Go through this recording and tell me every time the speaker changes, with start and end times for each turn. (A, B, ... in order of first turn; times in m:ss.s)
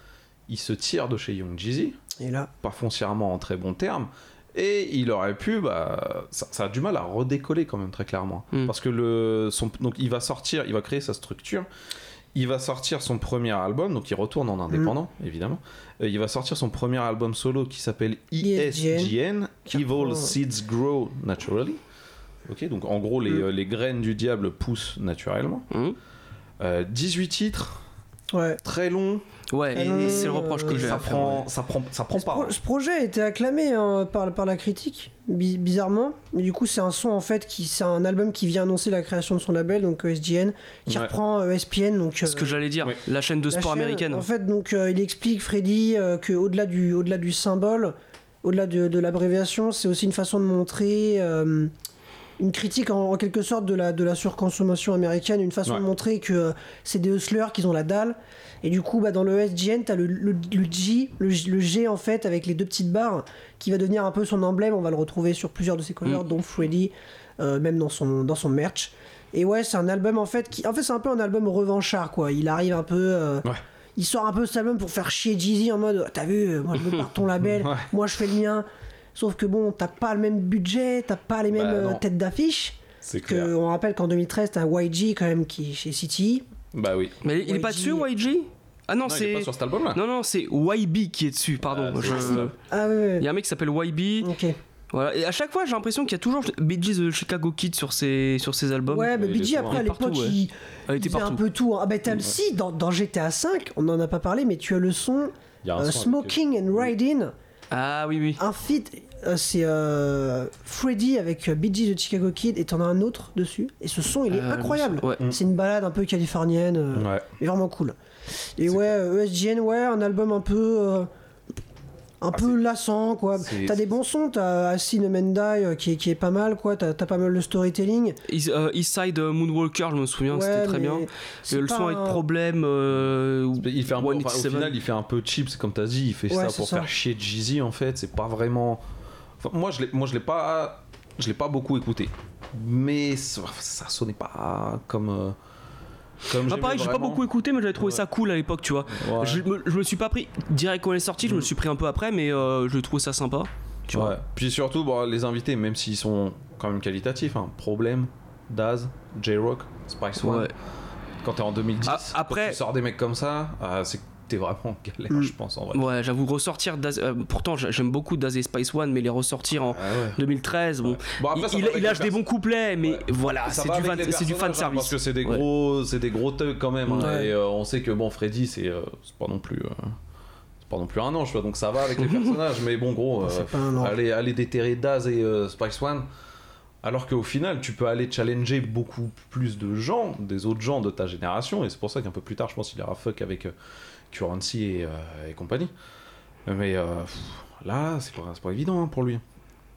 0:00.5-0:02.0 A
0:02.2-0:02.5 B
0:02.6-0:11.7 A
0:12.3-0:21.8 A
0:18.4-0:19.1 B
0:19.7-0:20.3 B
0:22.5-0:25.7 A
0:25.7-0:26.0 C
0:26.6-0:27.8 A
0:28.3-0:28.6 B
0:28.6-0:32.6 A
0:29.5-0:31.5 C
0:29.8-0:31.0 B
0:32.2-0:42.6 B
0:42.3-0:44.3 C
0:43.5-0:51.7 B
0:52.4-1:26.4 B
1:17.4-1:17.9 A
1:21.5-1:22.0 A
1:23.0-1:23.5 A
1:26.7-1:27.2 A
1:27.2-1:32.5 C
1:27.4-1:28.1 B
1:29.1-1:30.0 A
1:31.6-1:32.5 A
1:32.1-1:33.3 B
1:33.2-1:34.3 C
1:34.2-1:34.6 B
1:34.9-1:39.1 C
1:38.9-1:47.3 B
1:39.1-1:39.8 A
1:39.7-1:40.4 C
1:40.9-1:41.4 C
1:45.6-1:46.4 A
1:47.7-1:48.4 C
1:48.4-1:58.0 B
1:54.3-1:55.2 C
1:56.9-1:57.3 A
1:58.6-2:01.1 B
1:58.7-1:58.9 A
2:02.2-2:08.2 B
2:03.4-2:03.8 A
2:08.3-2:14.8 C
2:10.3-2:12.2 B
2:13.0-2:18.8 A
2:16.3-2:16.9 B
2:19.4-2:25.4 A
2:26.3-2:27.2 A
2:26.4-2:34.2 C
2:28.9-2:29.5 A
2:31.2-2:31.5 A
2:33.9-2:40.5 A
2:40.2-2:40.5 C
2:41.2-2:45.9 A
2:41.9-2:42.6 C
2:45.7-2:55.4 C
2:49.7-2:50.2 A
2:50.8-2:52.2 A
2:52.8-3:00.0 A
2:57.0-2:57.3 B
3:00.6-3:06.1 A
3:03.2-3:03.9 B
3:06.8-3:13.5 A
3:14.1-3:15.7 A
3:16.5-3:19.2 A